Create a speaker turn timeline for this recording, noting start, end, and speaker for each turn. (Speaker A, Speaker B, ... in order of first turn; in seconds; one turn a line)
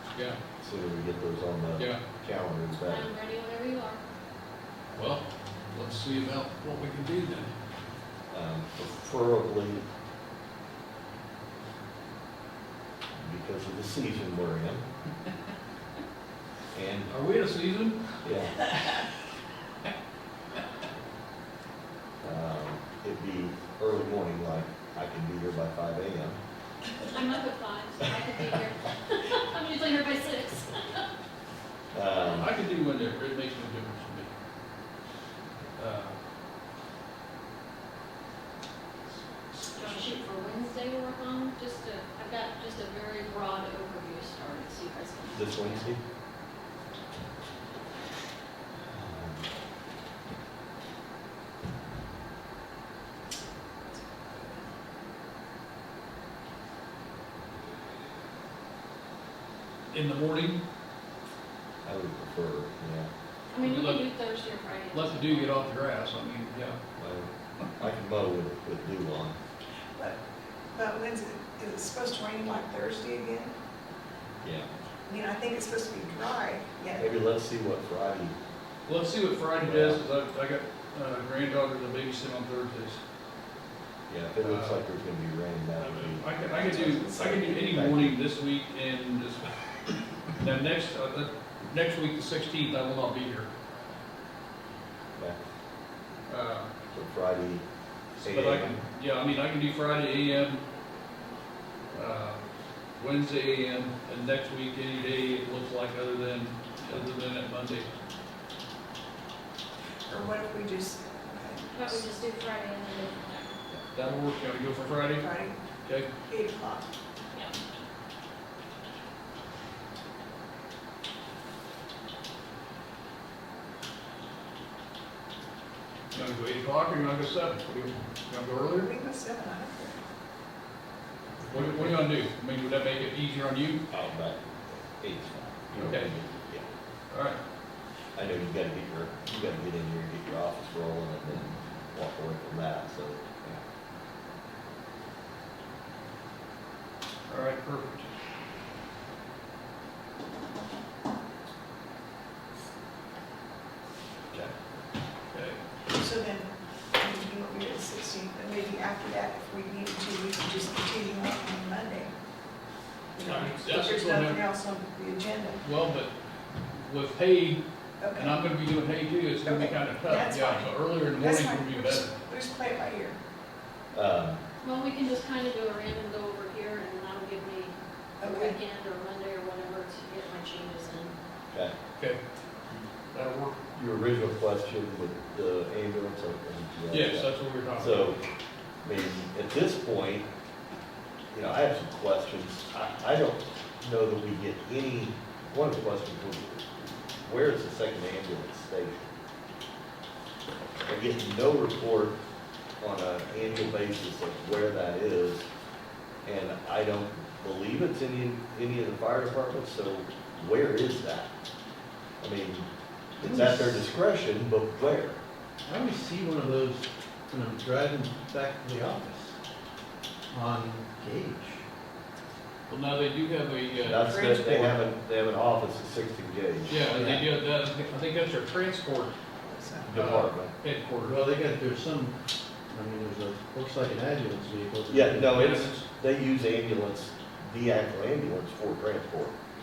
Speaker A: 0.1-0.4
Speaker B: 0.6-3.1
Speaker C: 2.9-4.0
Speaker A: 4.9-7.5
Speaker B: 8.3-9.8
Speaker B: 13.2-14.9
Speaker B: 16.7-17.1
Speaker A: 17.1-18.0
Speaker B: 18.2-18.6
Speaker B: 22.2-26.4
Speaker C: 27.1-31.1
Speaker B: 31.9-32.5
Speaker A: 32.2-34.3
Speaker A: 35.8-36.2
Speaker C: 39.8-45.9
Speaker B: 45.3-46.0
Speaker B: 48.9-49.5
Speaker A: 59.9-60.6
Speaker B: 61.9-63.1
Speaker C: 63.5-65.7
Speaker A: 63.6-64.1
Speaker A: 64.9-66.8
Speaker B: 67.0-69.4
Speaker D: 70.0-73.6
Speaker B: 74.4-74.7
Speaker D: 75.0-77.1
Speaker B: 77.0-78.3
Speaker A: 78.8-83.0
Speaker B: 79.6-80.0
Speaker B: 84.1-88.2
Speaker A: 84.4-84.8
Speaker A: 85.8-89.6
Speaker D: 86.7-87.2
Speaker A: 90.2-93.5
Speaker A: 96.3-96.7
Speaker B: 96.9-97.6
Speaker B: 98.2-98.8
Speaker A: 98.3-100.7
Speaker A: 101.9-102.4
Speaker A: 103.0-107.9
Speaker D: 110.1-112.1
Speaker C: 111.7-113.6
Speaker A: 113.7-115.3
Speaker D: 115.2-115.6
Speaker D: 116.2-116.9
Speaker A: 126.1-128.9
Speaker D: 128.8-130.0
Speaker A: 131.4-133.8
Speaker B: 131.5-132.0
Speaker B: 133.9-136.7
Speaker A: 135.8-136.1
Speaker A: 137.1-137.4
Speaker B: 138.2-143.6
Speaker A: 147.3-148.1
Speaker A: 155.3-155.6
Speaker D: 155.9-162.1
Speaker D: 163.1-165.6
Speaker A: 163.2-164.4
Speaker A: 165.6-166.2
Speaker A: 166.7-167.6
Speaker D: 168.0-168.4
Speaker A: 168.1-172.2
Speaker D: 169.4-173.2
Speaker B: 173.9-174.4
Speaker C: 174.6-181.2
Speaker D: 178.2-178.6
Speaker A: 183.1-183.6
Speaker B: 183.7-188.2
Speaker A: 186.9-188.1
Speaker B: 188.8-190.3
Speaker B: 191.3-199.1
Speaker B: 200.9-202.2
Speaker B: 202.8-205.5
Speaker B: 206.2-211.3
Speaker B: 212.2-215.2
Speaker E: 213.2-213.8
Speaker E: 215.7-219.4
Speaker E: 220.3-221.7
Speaker A: 222.7-224.7
Speaker B: 223.8-227.0
Speaker D: 224.1-224.4
Speaker A: 226.7-229.1
Speaker E: 226.9-227.3
Speaker D: 229.4-229.9
Speaker B: 229.8-230.5
Speaker A: 229.9-231.2
Speaker E: 231.0-235.4
Speaker B: 234.9-239.3
Speaker A: 235.3-235.8